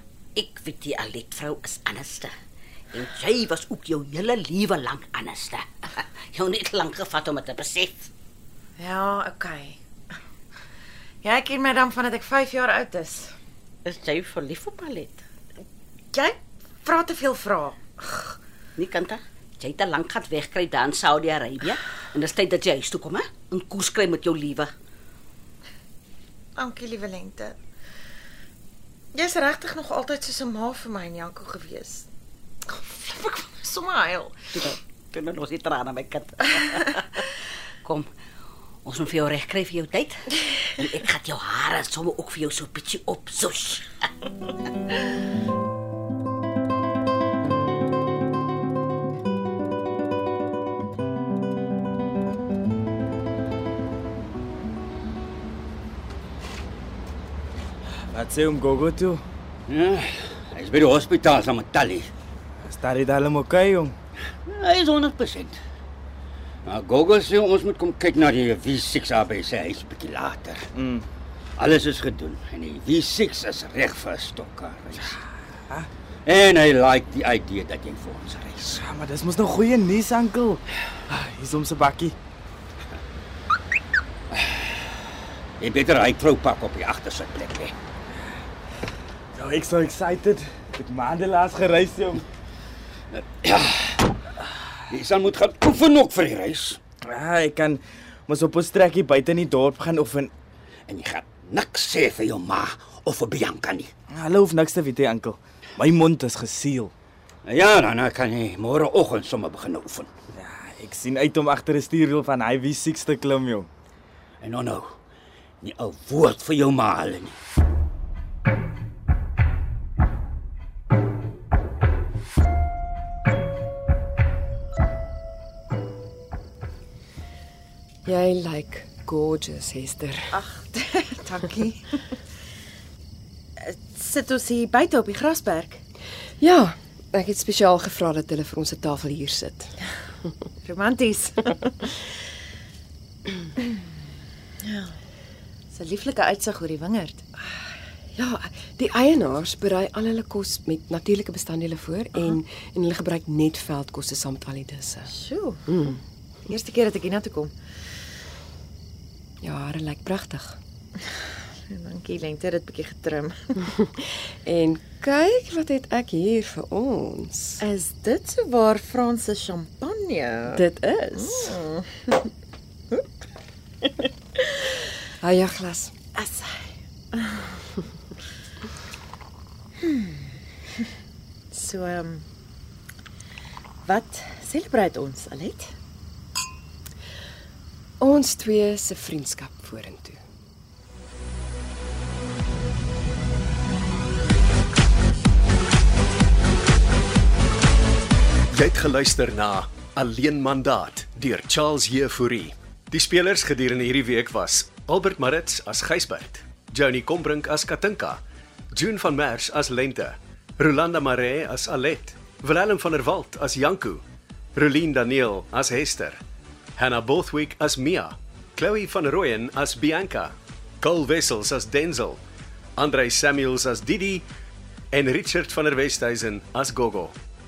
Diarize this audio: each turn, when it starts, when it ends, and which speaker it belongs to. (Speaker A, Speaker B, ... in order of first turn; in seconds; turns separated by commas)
Speaker A: 0.3-2.3, Speaker A: 2.9-8.1, Speaker B: 8.8-9.8, Speaker B: 11.2-13.3, Speaker A: 13.8-15.2, Speaker B: 16.1-18.0, Speaker A: 18.8-24.7, Speaker B: 26.6-27.5, Speaker B: 29.1-32.1, Speaker B: 32.7-34.4, Speaker A: 34.5-37.2, Speaker A: 38.9-43.9, Speaker C: 58.1-59.2, Speaker D: 59.7-62.1, Speaker C: 62.6-64.0, Speaker D: 64.5-65.6, Speaker D: 66.7-70.6, Speaker C: 70.7-71.1, Speaker D: 71.6-75.2, Speaker C: 75.1-75.9, Speaker D: 76.3-78.8, Speaker C: 78.8-82.2, Speaker D: 85.6-87.7, Speaker C: 89.3-92.2, Speaker D: 93.1-94.0, Speaker D: 94.9-96.8, Speaker C: 97.1-100.3, Speaker D: 100.9-103.9, Speaker C: 104.1-106.9, Speaker D: 107.5-110.1, Speaker C: 110.3-113.7, Speaker D: 114.4-114.9, Speaker D: 115.6-117.4, Speaker E: 128.1-130.4, Speaker B: 130.3-131.9, Speaker B: 133.6-135.8, Speaker E: 136.4-139.7, Speaker B: 140.7-141.8, Speaker B: 144.6-144.9, Speaker B: 145.7-147.3, Speaker E: 148.2-155.1, Speaker B: 155.1-155.9, Speaker E: 155.7-156.0, Speaker B: 156.5-157.5, Speaker E: 159.4-160.6, Speaker B: 161.7-163.6, Speaker E: 164.5-167.6, Speaker B: 167.6-170.6, Speaker E: 170.5-171.6, Speaker B: 171.2-172.2, Speaker E: 175.2-175.9, Speaker B: 176.2-176.6, Speaker B: 177.1-177.6, Speaker B: 179.8-180.3, Speaker B: 181.5-182.2, Speaker B: 183.8-185.7, Speaker E: 188.0-190.2, Speaker F: 198.5-208.2, Speaker F: 208.7-214.0, Speaker F: 214.6-216.2, Speaker F: 216.8-222.2, Speaker F: 222.8-224.2, Speaker F: 224.9-227.2